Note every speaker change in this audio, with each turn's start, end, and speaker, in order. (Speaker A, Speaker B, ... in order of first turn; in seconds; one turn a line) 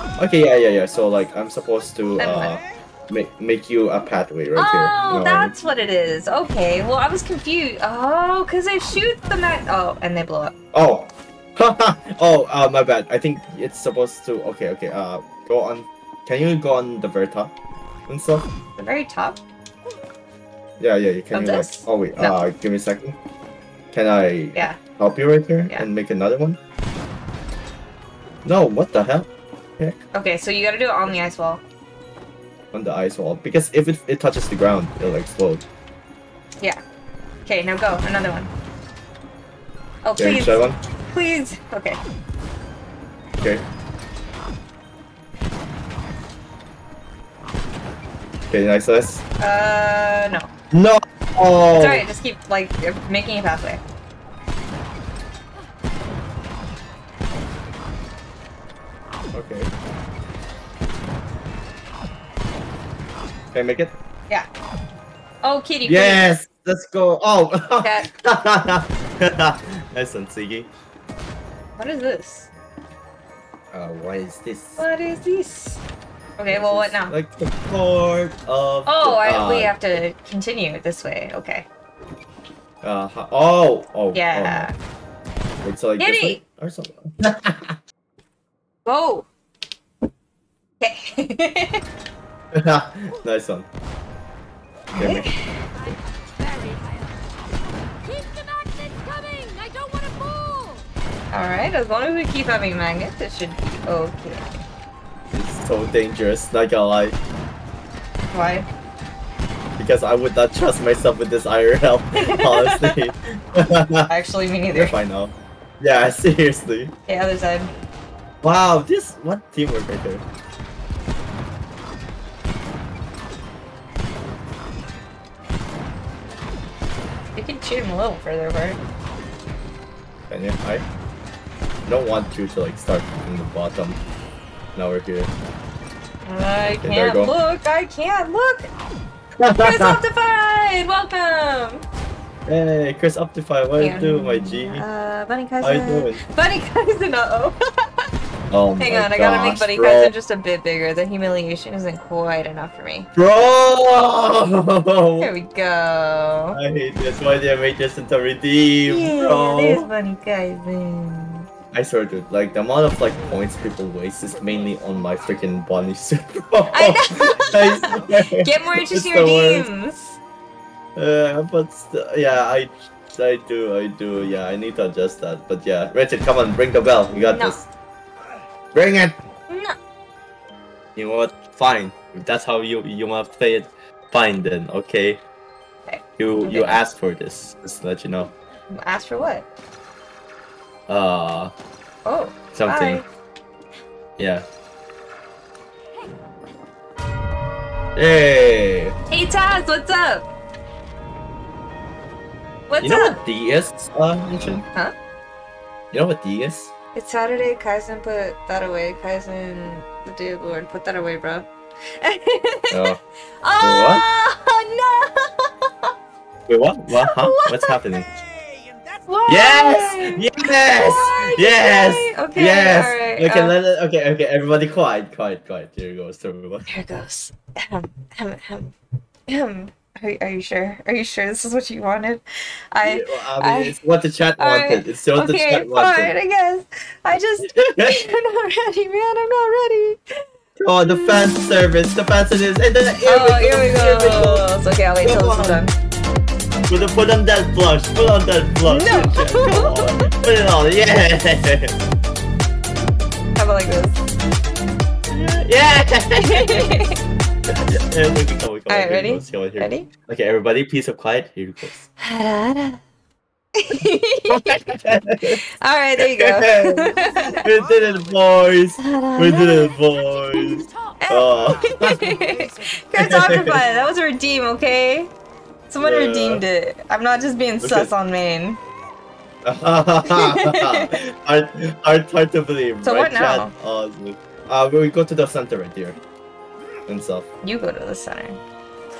Speaker A: 0.2-5.5
Speaker B: 0.3-2.8
Speaker C: 2.2-2.5
Speaker C: 4.5-10.5
Speaker A: 10.7-17.5
Speaker A: 18.1-18.4
Speaker C: 18.8-19.4
Speaker A: 20.8-23.1
Speaker C: 21.3-22.4
Speaker A: 23.9-26.6
Speaker A: 28.4-29.3
Speaker C: 30.1-31.6
Speaker A: 32.7-35.6
Speaker C: 37.5-38.5
Speaker C: 40.0-42.0
Speaker A: 40.2-40.8
Speaker A: 48.5-49.2
Speaker C: 49.4-50.5
Speaker A: 50.7-52.0
Speaker C: 51.7-53.8
Speaker A: 59.3-59.7
Speaker A: 63.5-63.9
Speaker C: 65.4-66.3
Speaker A: 65.8-70.7
Speaker C: 67.8-68.1
Speaker C: 71.8-72.5
Speaker A: 73.7-74.8
Speaker C: 74.8-75.8
Speaker C: 76.4-77.1
Speaker A: 76.5-80.0
Speaker C: 78.8-81.7
Speaker A: 82.8-84.7
Speaker C: 84.1-84.8
Speaker A: 85.6-87.8
Speaker C: 86.0-86.4
Speaker C: 88.8-89.3
Speaker C: 90.8-91.8
Speaker A: 92.5-93.7
Speaker A: 94.9-95.3
Speaker C: 95.0-95.5
Speaker D: 95.7-97.4
Speaker D: 98.0-100.8
Speaker C: 101.3-104.5
Speaker A: 105.3-107.2
Speaker C: 108.3-108.7
Speaker A: 109.8-114.1
Speaker C: 112.2-113.0
Speaker C: 114.1-114.9
Speaker A: 114.7-116.9
Speaker C: 117.1-117.7
Speaker A: 118.4-120.2
Speaker C: 127.3-128.8
Speaker A: 130.3-130.8
Speaker A: 131.8-134.0
Speaker A: 134.7-135.3
Speaker C: 136.2-138.7
Speaker A: 136.8-137.3
Speaker A: 139.4-140.0
Speaker C: 139.6-141.8
Speaker A: 142.5-144.8
Speaker C: 143.8-148.1
Speaker A: 145.6-146.2
Speaker A: 148.5-150.1
Speaker C: 148.8-153.1
Speaker A: 153.2-155.3
Speaker C: 155.2-156.6
Speaker A: 156.5-159.9
Speaker C: 158.8-161.5
Speaker A: 161.7-169.7
Speaker C: 166.7-170.2
Speaker B: 167.1-168.2
Speaker A: 170.9-177.6
Speaker C: 177.3-177.6
Speaker A: 178.7-179.1
Speaker C: 179.5-179.8
Speaker A: 180.9-185.2
Speaker C: 185.9-186.8
Speaker A: 186.2-188.3
Speaker C: 188.7-189.4
Speaker A: 190.9-191.5
Speaker C: 192.0-193.0
Speaker A: 192.5-193.0
Speaker A: 194.2-194.4
Speaker A: 197.9-198.9
Speaker C: 199.1-200.2
Speaker C: 202.7-203.2
Speaker A: 202.8-204.7
Speaker A: 205.9-206.7
Speaker C: 206.9-215.9
Speaker A: 212.7-213.0
Speaker A: 213.6-214.0
Speaker A: 216.5-218.1
Speaker C: 216.9-217.8
Speaker B: 217.9-220.2
Speaker C: 219.1-223.5
Speaker A: 219.3-226.7
Speaker C: 226.7-228.7
Speaker C: 229.3-233.8
Speaker A: 232.8-236.1
Speaker C: 234.4-240.0
Speaker A: 237.4-238.1
Speaker A: 240.6-244.5
Speaker C: 240.8-241.3
Speaker C: 243.1-245.7
Speaker A: 245.0-245.6
Speaker A: 246.7-251.7
Speaker C: 248.6-250.0
Speaker C: 253.3-254.0
Speaker A: 255.1-256.8
Speaker C: 256.2-256.9
Speaker A: 257.5-261.8
Speaker C: 258.7-259.9
Speaker C: 262.0-262.8
Speaker C: 263.5-264.8
Speaker A: 264.3-265.4
Speaker C: 265.3-267.4
Speaker A: 266.0-272.1
Speaker B: 266.9-268.4
Speaker D: 266.9-267.9
Speaker C: 268.8-269.8
Speaker D: 269.6-271.1
Speaker C: 271.0-275.1
Speaker B: 271.3-273.9
Speaker A: 272.9-273.6
Speaker C: 275.7-278.6
Speaker A: 275.8-276.4
Speaker A: 277.6-277.9
Speaker A: 279.4-286.0
Speaker C: 280.1-280.9
Speaker C: 282.8-283.5
Speaker A: 286.9-287.3
Speaker C: 287.4-288.4